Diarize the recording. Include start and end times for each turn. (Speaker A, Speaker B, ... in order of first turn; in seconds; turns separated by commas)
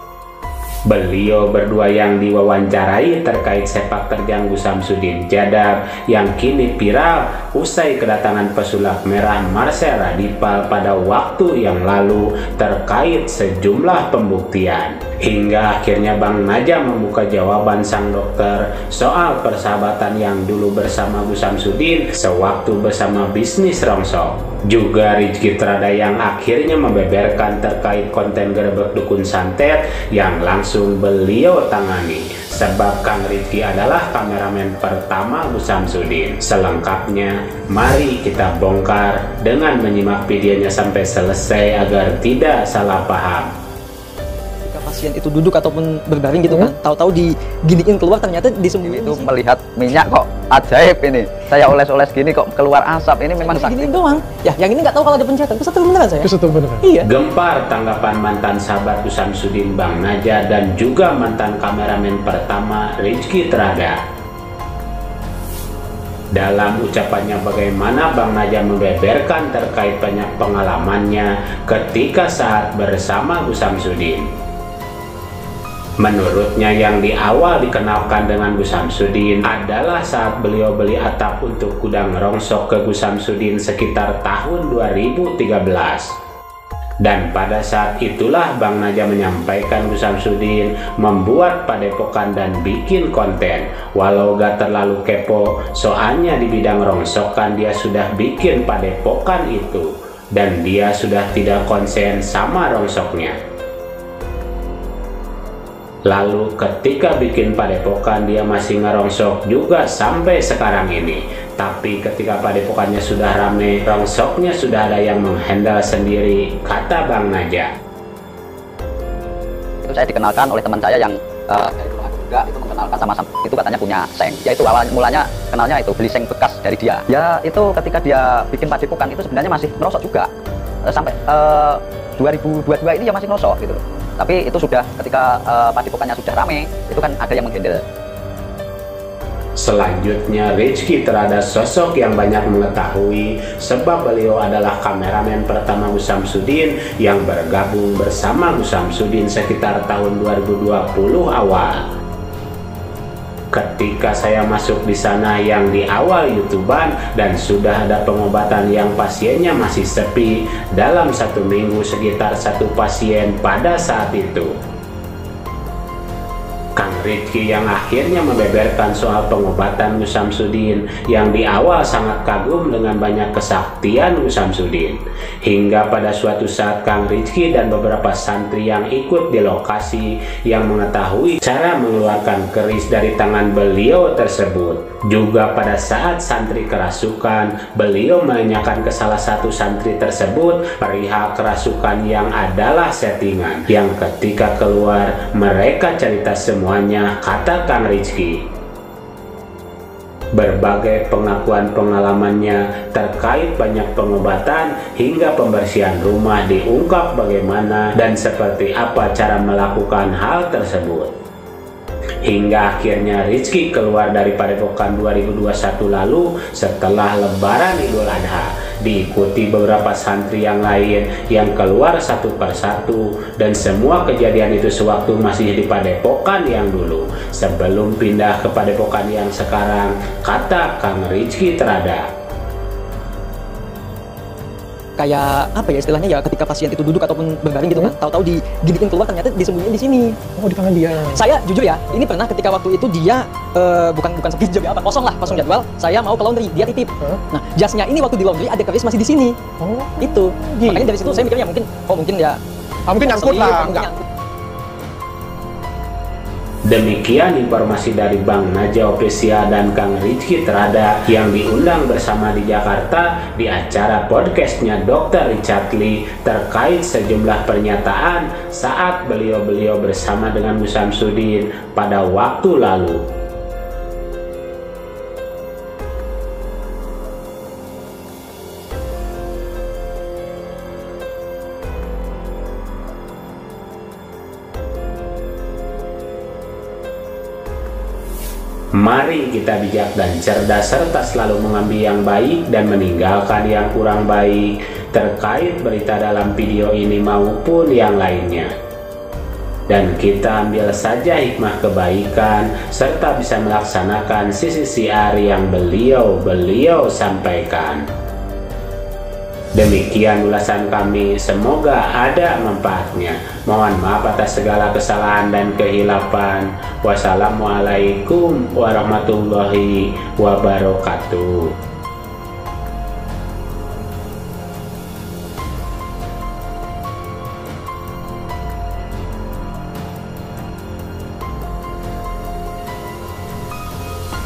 Speaker A: 0.9-43.5, Speaker B: 44.7-49.3, Speaker C: 48.8-54.1, Speaker B: 53.4-57.0, Speaker D: 56.2-56.8, Speaker A: 57.0-64.0, Speaker A: 66.3-74.2, Speaker A: 76.0-86.1, Speaker A: 87.0-103.3, Speaker A: 106.1-117.7, Speaker C: 119.8-130.3, Speaker C: 130.8-137.8, Speaker A: 139.6-151.8, Speaker A: 153.5-164.5, Speaker A: 166.8-198.4, Speaker A: 200.4-211.1, Speaker A: 212.2-232.0, Speaker B: 235.0-240.2, Speaker D: 240.4-241.2, Speaker B: 241.0-249.3, Speaker B: 250.0-252.4, Speaker D: 250.5-251.1, Speaker D: 252.9-253.9, Speaker B: 252.9-254.0, Speaker A: 256.7-273.0, Speaker A: 288.8-298.5, Speaker A: 299.7-307.8, Speaker A: 309.6-321.5